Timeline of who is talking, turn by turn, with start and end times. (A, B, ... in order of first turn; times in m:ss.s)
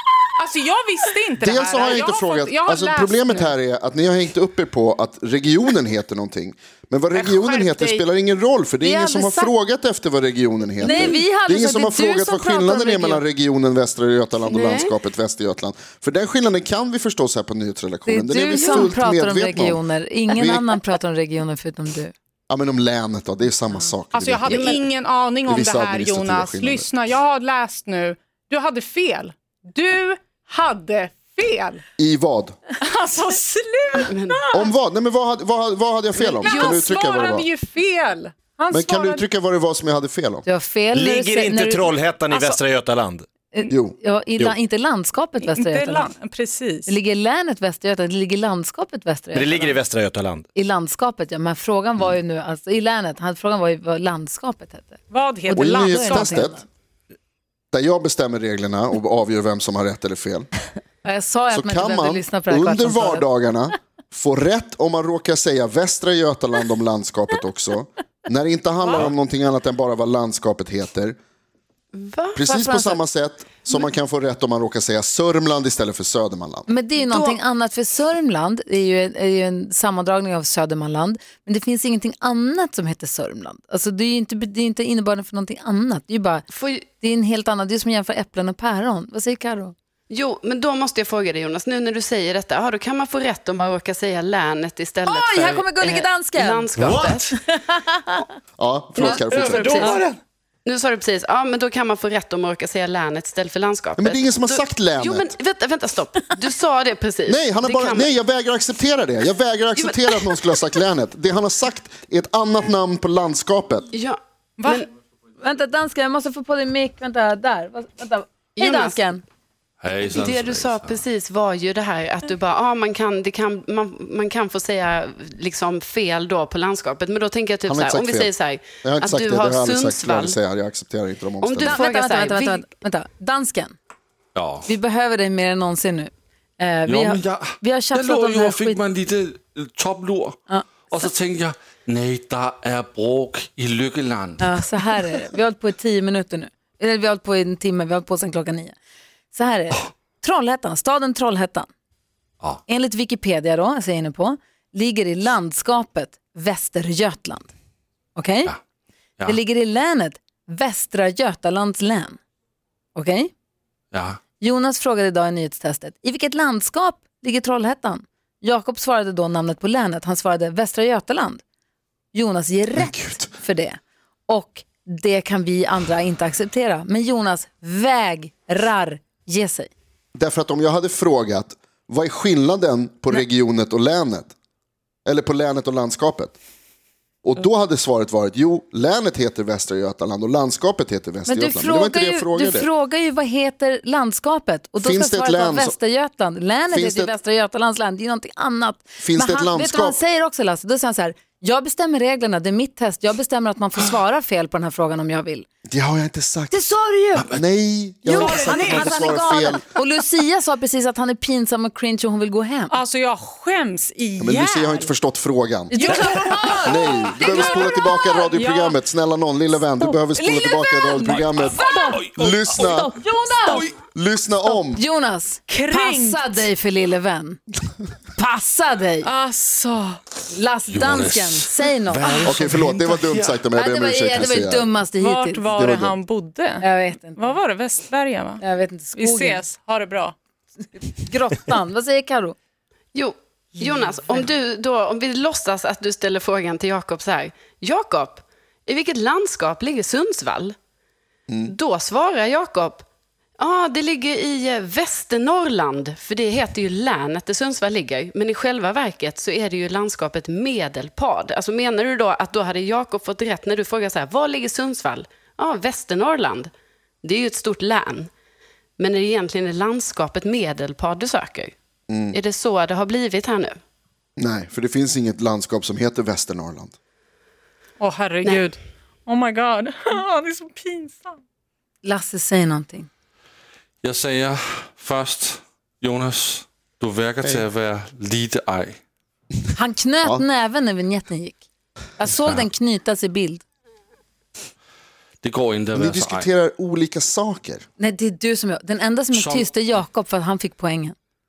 0:00.4-0:03.6 A
0:01.4-0:20.8 B
0:07.1-0:08.1 A
0:08.8-0:09.5 C
0:10.8-0:13.2 C
0:14.5-0:14.9 D
0:18.1-0:22.1 C
0:18.6-0:18.9 D
0:22.5-0:24.9 B
0:24.1-0:31.8 A
0:25.5-0:26.9 B
0:32.0-0:32.6 B
0:32.8-0:34.7 A
0:34.1-0:34.4 D
0:34.5-0:37.5 B
0:36.4-0:39.2 A
0:36.4-0:36.8 D
0:38.7-0:40.4 B
0:40.5-0:41.9 C
0:40.9-0:43.3 E
0:42.3-0:42.6 A
0:43.5-0:46.1 C
0:43.7-0:44.0 B
0:45.4-0:46.9 A
0:46.9-0:49.8 C
0:49.4-0:50.5 E
0:50.6-0:56.6 C
0:55.1-0:56.4 A
0:55.5-0:56.6 B
0:57.7-1:00.5 B
1:01.0-1:03.3 C
1:01.5-1:11.2 B
1:11.9-1:13.0 D
1:12.4-1:16.7 B
1:16.7-1:29.7 C
1:17.0-1:17.4 D
1:26.5-1:26.8 D
1:30.1-1:37.3 D
1:35.0-1:38.3 C
1:36.8-1:37.1 E
1:38.6-1:39.9 B
1:39.0-1:40.0 D
1:39.3-1:40.2 E
1:39.7-1:40.0 C
1:40.6-1:48.1 D
1:44.0-1:45.3 B
1:47.3-1:53.9 B
1:49.8-1:50.6 D
1:53.9-1:54.9 D
1:55.4-1:59.2 C
1:58.6-1:59.0 D
1:59.8-2:01.0 F
2:00.0-2:10.4 D
2:07.7-2:11.8 B
2:11.4-2:12.6 D
2:11.6-2:13.8 C
2:14.4-2:14.7 F
2:14.7-2:18.8 C
2:16.9-2:24.6 F
2:20.5-2:20.8 C
2:24.4-2:28.8 C
2:29.3-2:31.7 C
2:32.7-2:37.5 C
2:38.2-2:38.5 C
2:39.2-2:42.2 C
2:43.0-2:43.3 C
2:43.9-2:44.2 F
2:44.4-2:51.4 C
2:52.1-2:59.7 C
2:52.8-2:53.3 B
3:00.2-3:04.3 B
3:05.1-3:06.4 B
3:07.2-3:12.7 B
3:11.3-3:25.5 C
3:14.8-3:15.8 B
3:16.7-3:17.2 B
3:19.0-3:20.0 B
3:25.7-3:26.7 B
3:26.5-3:27.3 C
3:27.3-3:29.6 B
3:28.0-3:32.8 C
3:28.1-3:29.3 A
3:32.7-3:34.9 A
3:34.2-3:42.9 B
3:35.7-3:37.8 C
3:35.7-3:38.8 A
3:40.2-3:43.7 C
3:41.1-3:42.4 F
3:43.4-3:43.7 F
3:43.9-3:44.8 B
3:44.4-3:47.4 C
3:45.5-3:46.5 A
3:48.2-3:49.1 C
3:49.0-3:50.0 A
3:50.3-3:52.5 C
3:50.7-3:53.4 F
3:52.2-3:54.7 B
3:53.6-3:55.4 C
3:55.0-3:58.4 A
3:55.5-3:56.0 B
3:56.6-3:57.4 C
3:58.4-3:59.4 C
3:59.0-4:00.2 A
4:00.7-4:02.4 C
4:02.9-4:10.6 D
4:11.3-4:11.5 B
4:11.5-4:12.8 D
4:13.4-4:26.5 D
4:27.0-4:28.1 D
4:28.8-4:31.6 D
4:31.9-4:32.2 B
4:32.1-4:33.6 D
4:34.2-4:36.7 B
4:37.8-4:41.2 A
4:38.2-4:38.5 D
4:41.8-4:42.9 C
4:43.8-4:48.8 F
4:49.6-4:51.4 C
4:52.0-4:53.4 C
4:55.2-4:56.3 F
4:55.7-4:57.7 B
4:57.8-5:01.0 C
4:59.1-4:59.5 F